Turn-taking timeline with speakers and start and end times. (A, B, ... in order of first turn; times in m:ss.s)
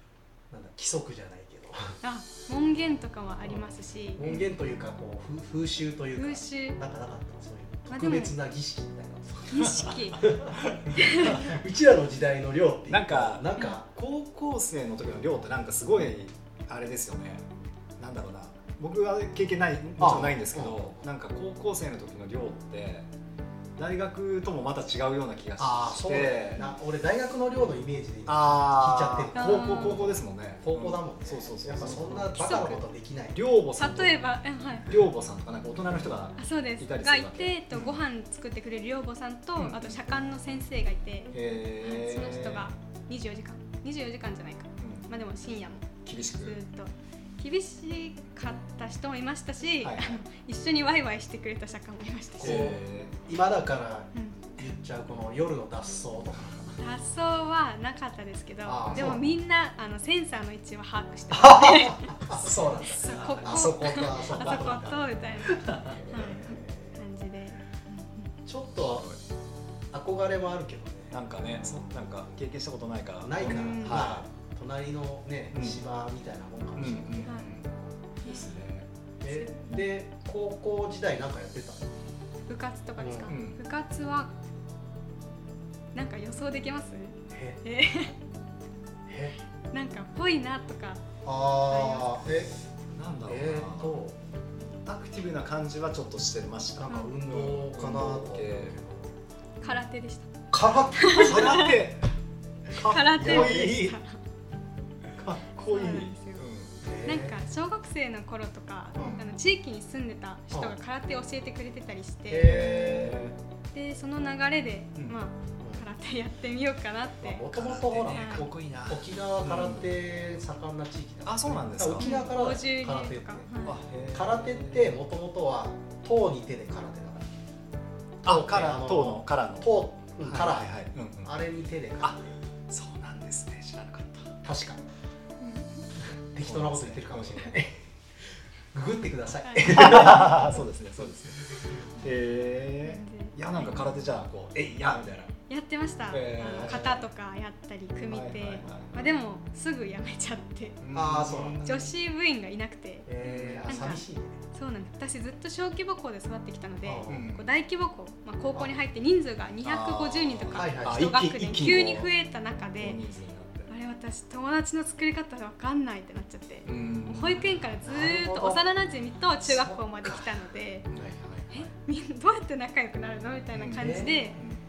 0:00.5-0:02.0 A
0:02.0-0:04.2 B
0:03.5-0:13.9 A
0:04.2-0:04.5 C
0:06.2-0:06.8 B
0:07.9-0:08.4 B
0:09.5-0:10.3 B
0:09.6-0:10.0 C
0:10.5-0:11.6 C
0:11.0-0:11.6 B
0:12.9-0:17.5 C
0:18.0-0:23.1 C
0:20.0-0:20.9 A
0:23.8-0:26.6 C
0:25.6-0:33.4 A
0:28.2-0:32.2 C
0:29.3-0:30.1 B
0:31.8-0:32.8 B
0:33.3-0:34.2 C
0:33.8-0:34.9 B
0:34.8-0:38.0 C
0:36.4-0:52.7 B
0:39.6-0:40.0 C
0:41.3-0:42.7 C
0:44.8-0:45.1 C
0:46.0-0:46.6 C
0:49.8-0:50.2 C
0:52.4-0:56.8 A
0:52.4-0:53.1 C
0:54.1-0:54.5 B
0:56.8-1:02.2 B
0:58.6-0:59.2 A
1:01.3-1:05.0 A
1:02.4-1:03.7 C
1:02.8-1:08.3 B
1:05.6-1:06.0 C
1:05.6-1:07.0 A
1:08.4-1:09.1 A
1:08.8-1:09.2 C
1:09.9-1:11.9 A
1:11.1-1:14.2 C
1:13.2-1:17.8 A
1:13.4-1:14.0 B
1:15.5-1:15.8 C
1:16.8-1:17.7 C
1:17.2-1:17.5 B
1:18.2-1:18.9 C
1:19.2-1:21.9 A
1:19.3-1:19.9 B
1:22.5-1:24.3 B
1:23.0-1:23.3 A
1:23.3-1:23.6 C
1:25.9-1:28.2 B
1:27.3-1:27.6 A
1:29.1-1:29.4 A
1:29.7-1:31.0 B
1:31.2-1:32.5 A
1:31.7-1:32.2 B
1:32.9-1:34.0 C
1:33.3-1:34.2 A
1:34.8-1:38.8 C
1:36.8-1:39.2 A
1:39.6-1:40.3 B
1:40.5-1:41.7 A
1:40.9-1:41.8 B
1:41.2-1:42.1 C
1:42.7-1:44.0 C
1:42.7-1:44.2 B
1:43.1-1:43.7 A
1:45.1-1:46.7 C
1:45.6-1:46.5 B
1:46.8-1:47.4 A
1:47.0-1:52.6 B
1:49.0-1:49.2 C
1:52.3-1:53.2 A
1:52.4-1:53.4 C
1:53.7-1:57.5 B
1:55.6-1:55.8 A
1:57.2-2:03.5 A
1:57.5-1:59.9 C
1:58.1-1:58.5 B
2:01.2-2:02.2 C
2:02.0-2:03.8 B
2:03.6-2:05.0 C
2:04.1-2:07.2 A
2:08.2-2:11.3 C
2:08.2-2:12.4 A
2:12.7-2:14.4 C
2:14.4-2:14.8 A
2:15.4-2:15.8 B
2:16.0-2:17.8 A
2:16.4-2:17.6 C
2:18.7-2:21.7 A
2:19.4-2:19.9 B
2:19.6-2:25.3 C
2:22.8-2:23.9 B
2:25.5-2:30.8 B
2:26.1-2:27.0 C
2:26.5-2:26.8 A
2:28.1-2:29.1 C
2:30.8-2:31.9 C
2:30.9-2:31.6 A
2:31.6-2:33.1 B
2:33.1-2:34.4 A
2:33.2-2:34.0 C
2:33.7-2:34.0 B
2:34.5-2:43.1 B
2:36.8-2:37.3 A
2:37.1-2:37.5 C
2:39.6-2:42.1 C
2:40.5-2:41.2 A
2:42.8-2:43.7 C
2:43.7-2:50.9 B
2:46.6-2:47.7 C
2:47.8-2:48.6 A
2:49.4-2:50.3 A
2:50.9-2:51.7 C
2:51.5-2:54.4 B
2:53.5-2:54.6 C
2:53.7-2:54.2 A